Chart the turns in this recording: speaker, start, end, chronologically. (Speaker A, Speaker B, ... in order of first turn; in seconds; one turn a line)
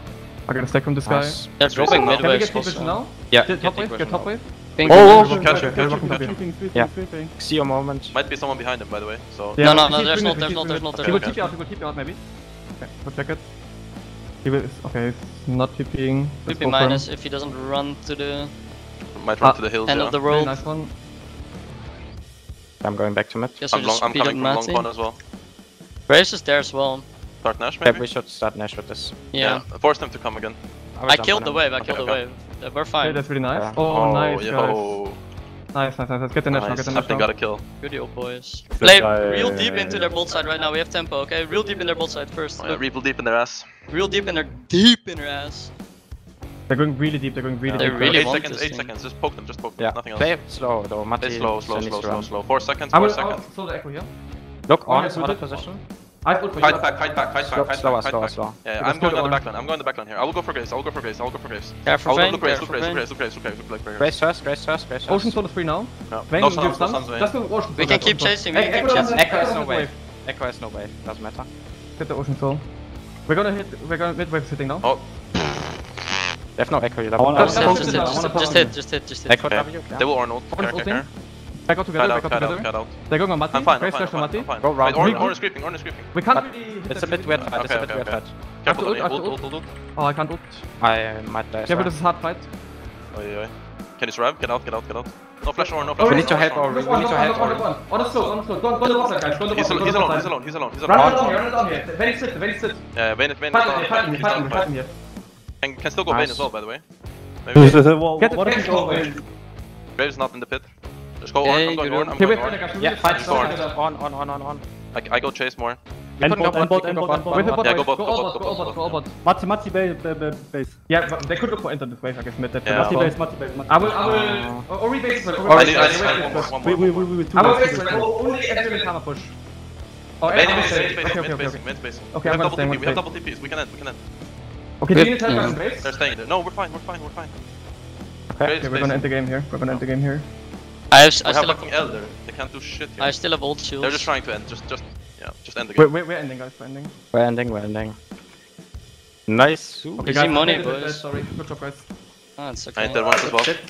Speaker A: 0.5-6.4
Speaker B: 1.0-2.2
Speaker C: 1.6-3.0
Speaker D: 1.6-2.3
Speaker B: 3.3-4.4
Speaker C: 4.8-5.4
Speaker E: 4.8-7.3
Speaker D: 5.1-6.4
Speaker B: 6.7-8.2
Speaker D: 8.1-9.9
Speaker A: 9.6-12.2
Speaker C: 9.6-11.5
Speaker D: 10.9-11.5
Speaker A: 12.8-13.5
Speaker A: 14.4-17.1
Speaker C: 16.5-18.5
Speaker D: 19.1-20.2
Speaker A: 19.4-21.0
Speaker C: 19.9-20.6
Speaker B: 22.8-23.6
Speaker C: 23.6-24.9
Speaker D: 23.7-25.2
Speaker C: 26.1-27.1
Speaker D: 27.4-28.1
Speaker B: 27.8-29.1
Speaker C: 29.3-29.6
Speaker D: 29.4-30.6
Speaker B: 31.0-31.7
Speaker C: 31.1-33.2
Speaker D: 31.8-32.2
Speaker A: 33.0-35.0
Speaker B: 33.4-34.4
Speaker D: 34.3-35.2
Speaker A: 35.7-37.3
Speaker D: 36.5-37.6
Speaker C: 37.8-42.9
Speaker E: 38.7-40.2
Speaker D: 42.6-43.9
Speaker C: 43.9-45.7
Speaker A: 46.7-48.4
Speaker B: 47.6-48.0
Speaker C: 47.8-48.9
Speaker D: 48.0-50.5
Speaker B: 49.8-52.3
Speaker D: 51.2-53.5
Speaker A: 52.9-54.1
Speaker B: 54.7-55.8
Speaker A: 54.9-56.9
Speaker D: 56.6-64.2
Speaker B: 57.4-58.6
Speaker A: 58.8-59.5
Speaker C: 61.8-63.1
Speaker B: 64.0-65.4
Speaker A: 65.1-70.0
Speaker D: 66.1-67.3
Speaker C: 67.8-69.2
Speaker E: 68.7-69.0
Speaker B: 69.1-71.5
Speaker A: 72.0-72.7
Speaker A: 73.2-74.9
Speaker D: 74.8-75.6
Speaker B: 76.6-78.0
Speaker E: 77.2-78.8
Speaker A: 77.3-78.7
Speaker C: 77.4-79.7
Speaker B: 79.2-80.1
Speaker D: 79.5-81.1
Speaker A: 80.5-87.5
Speaker D: 82.0-86.2
Speaker B: 84.6-85.4
Speaker B: 86.3-88.3
Speaker D: 87.4-89.7
Speaker A: 88.7-90.7
Speaker B: 90.8-92.0
Speaker A: 91.7-92.5
Speaker D: 93.1-96.9
Speaker A: 95.8-102.8
Speaker B: 96.0-97.7
Speaker D: 99.5-101.4
Speaker B: 100.9-101.4
Speaker D: 102.9-104.8
Speaker A: 103.5-105.0
Speaker D: 105.6-106.8
Speaker B: 106.1-106.5
Speaker D: 107.4-107.9
Speaker E: 107.5-109.2
Speaker A: 108.2-109.1
Speaker D: 110.0-113.6
Speaker C: 111.4-112.2
Speaker A: 112.2-113.8
Speaker B: 112.8-114.6
Speaker D: 114.9-115.8
Speaker E: 116.2-117.6
Speaker B: 116.2-117.6
Speaker A: 117.3-119.2
Speaker D: 117.6-119.0
Speaker E: 119.2-120.8
Speaker A: 120.9-126.5
Speaker D: 122.6-123.2
Speaker E: 122.7-124.2
Speaker B: 124.0-124.7
Speaker B: 125.5-126.0
Speaker D: 125.5-127.8
Speaker E: 125.9-128.1
Speaker A: 127.3-129.4
Speaker A: 130.2-133.1
Speaker D: 130.3-134.0
Speaker A: 134.8-135.9
Speaker C: 134.9-135.8
Speaker D: 135.8-137.3
Speaker B: 138.3-138.6
Speaker D: 138.4-139.1
Speaker A: 138.6-140.3
Speaker C: 140.9-141.8
Speaker D: 141.2-145.9
Speaker C: 143.0-144.1
Speaker A: 145.8-146.9
Speaker B: 147.1-148.0
Speaker B: 149.3-150.1
Speaker A: 150.0-151.9
Speaker C: 150.0-151.1
Speaker C: 152.4-153.4
Speaker D: 152.8-153.6